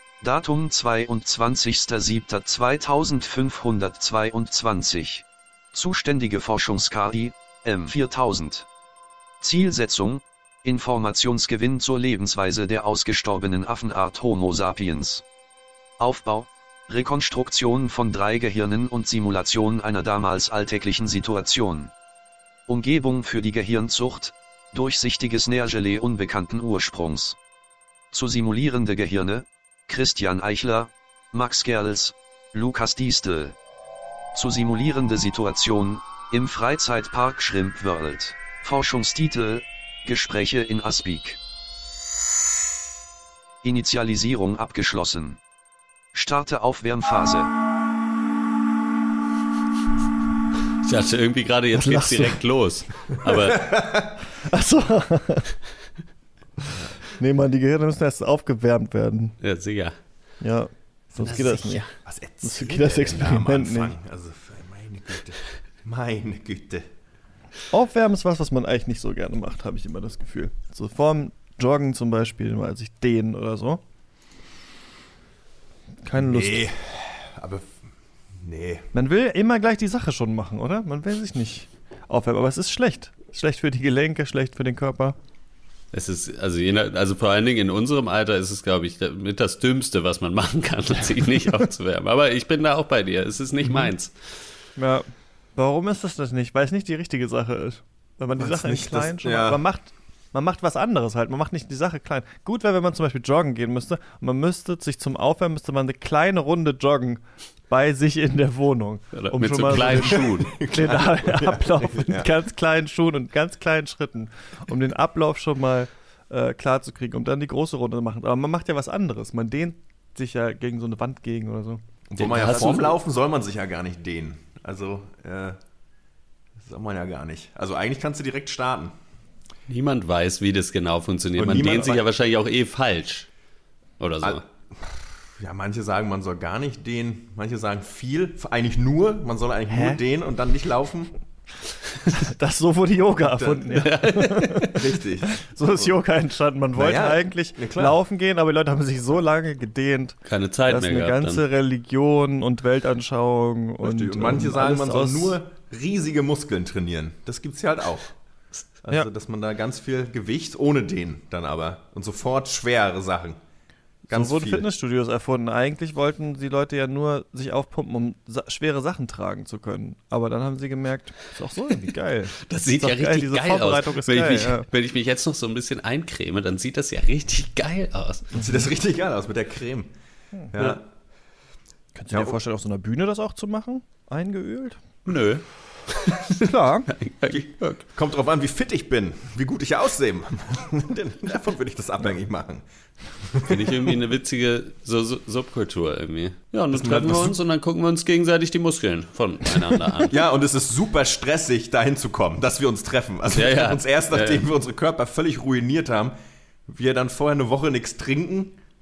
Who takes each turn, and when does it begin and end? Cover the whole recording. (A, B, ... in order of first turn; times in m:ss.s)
0:00.2-0:08.7 A
0:09.4-0:15.2 A
0:16.0-0:21.9 A
0:22.7-0:27.4 A
0:28.1-0:33.6 A
0:34.3-0:41.4 A
0:43.6-0:45.4 A
0:46.1-0:47.5 A
0:50.8-0:53.7 B
0:51.7-0:52.4 C
0:53.3-0:54.1 D
0:54.4-0:55.5 C
0:56.6-0:59.3 C
0:59.4-0:59.9 B
1:00.4-1:01.8 C
1:01.2-1:01.9 B
1:02.0-1:06.9 D
1:02.4-1:03.9 C
1:07.7-1:13.8 C
1:16.0-1:16.7 C
1:16.2-1:17.7 D
1:18.4-1:18.8 D
1:18.9-1:25.2 C
1:25.9-1:34.1 B
1:34.8-2:01.8 C
1:38.4-1:39.6 D
1:49.1-1:50.7 B
1:49.7-1:52.3 D
2:02.1-2:05.6 D
2:02.2-2:03.0 B
2:06.6-2:08.9 D
2:09.7-2:13.3 B
2:11.4-2:12.0 D
2:14.0-2:14.4 B
2:14.2-2:21.1 D
2:19.7-2:20.0 C
2:22.1-2:35.4 C
2:23.2-2:23.7 D
2:23.7-2:24.8 B
2:24.7-2:25.9 D
2:26.7-2:28.0 D
2:30.2-2:31.4 B
2:33.8-2:38.1 D
2:38.8-2:43.4 D
2:44.1-2:44.7 D
2:44.1-2:54.7 C
2:52.4-2:58.4 B
2:58.3-2:59.9 D
3:00.5-3:00.8 D
3:01.9-3:04.8 C
3:05.0-3:07.8 B
3:06.4-3:06.9 C
3:07.3-3:12.6 D
3:13.2-3:13.9 D
3:13.5-3:20.2 B
3:16.7-3:17.4 D
3:20.1-3:26.1 D
3:23.3-3:24.4 B
3:26.6-3:28.6 D